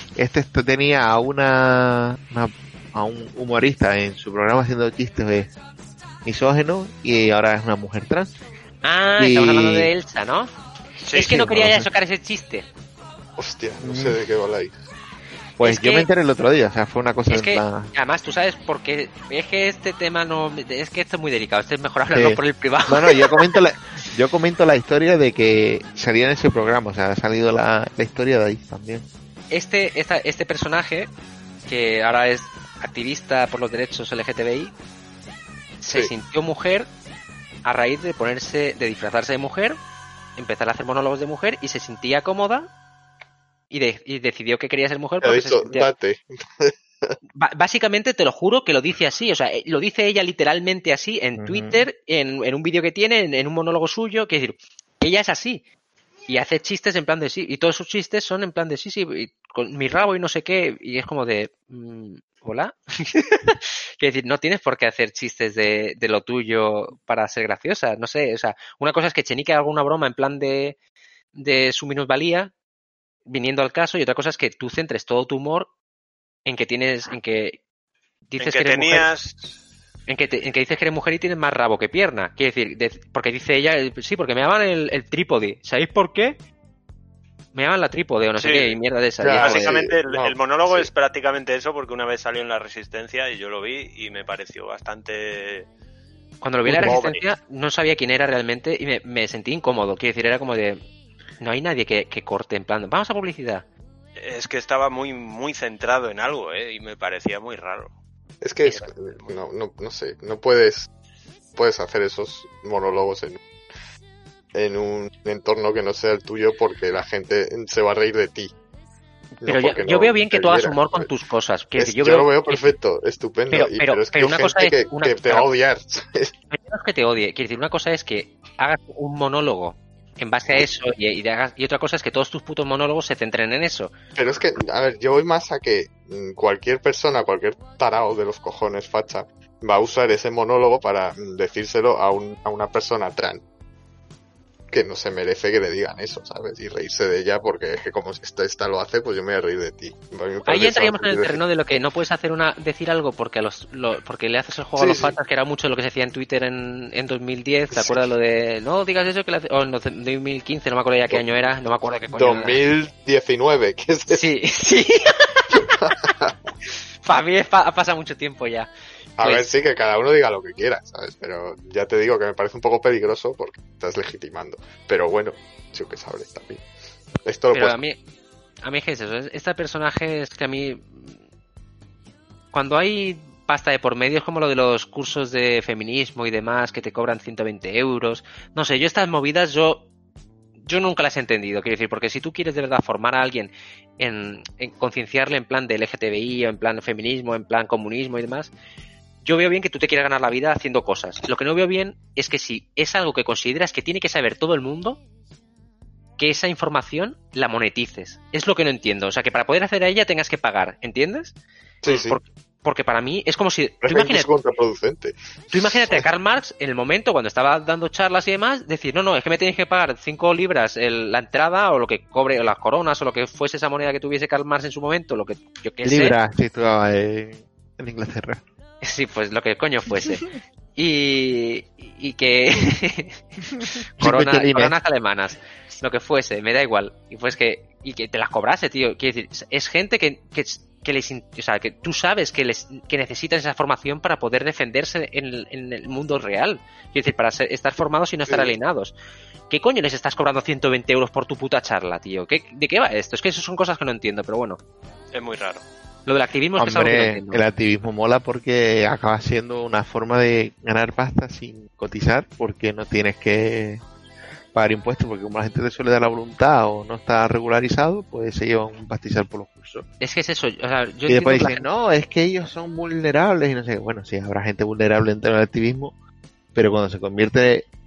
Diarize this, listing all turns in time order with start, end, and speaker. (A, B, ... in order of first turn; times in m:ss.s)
0:00.2-0:05.5 A
0:06.2-0:08.3 A
0:08.8-0:10.5 B
0:09.2-0:09.9 A
0:11.1-0:11.3 C
0:11.1-0:12.7 B
0:11.2-0:11.9 A
0:13.4-0:14.8 D
0:13.8-0:14.2 A
0:15.6-0:17.9 A
0:15.6-0:16.1 B
0:17.3-0:23.5 B
0:22.1-0:29.1 A
0:29.5-0:31.1 B
0:31.7-0:34.7 B
0:35.8-0:36.9 B
0:37.6-0:39.8 B
0:40.4-0:42.7 B
0:43.7-0:45.9 B
0:45.2-0:47.2 D
0:47.4-0:55.6 B
0:51.4-0:51.8 A
0:56.3-1:10.8 B
1:11.4-1:12.5 B
1:13.3-1:15.7 B
1:16.5-1:17.6 B
1:18.3-1:19.1 B
1:18.4-1:19.5 C
1:20.1-1:26.4 B
1:27.5-1:29.8 B
1:28.4-1:28.8 C
1:29.2-1:30.9 D
1:29.4-1:35.7 C
1:36.4-1:40.8 B
1:36.8-1:37.2 C
1:41.4-1:43.6 B
1:44.2-1:47.9 C
1:48.4-1:50.9 D
1:51.6-1:53.4 D
1:54.6-1:58.5 D
1:59.4-2:01.1 D
1:59.4-2:02.7 B
2:01.8-2:06.3 D
2:03.5-2:05.5 B
2:06.5-2:13.9 B
2:14.2-2:23.4 D
2:24.7-2:31.4 D
2:30.4-2:42.6 B
2:34.8-2:35.2 D
2:37.7-2:38.0 D
2:42.1-2:44.3 D
2:44.1-2:45.6 B
2:45.7-2:46.4 D
2:47.0-2:49.5 B
2:49.2-2:56.6 D
2:57.2-2:57.8 D
2:57.5-2:58.0 B
2:58.6-3:01.2 B
3:02.5-3:09.9 B
3:10.6-3:18.5 B
3:19.2-3:25.0 B
3:26.2-3:31.4 B
3:31.8-3:32.2 D
3:31.9-3:34.3 B
3:33.8-3:36.0 D
3:35.5-3:46.2 B
3:45.8-3:48.4 A
3:48.8-4:08.9 B
3:54.0-3:54.8 A
4:08.3-4:08.6 D
4:09.5-4:14.6 B
4:15.1-4:15.6 C
4:16.1-4:17.4 B
4:16.6-4:23.8 A
4:24.5-4:29.9 A
4:30.0-4:31.7 B
4:31.1-4:36.0 A
4:36.6-4:37.7 A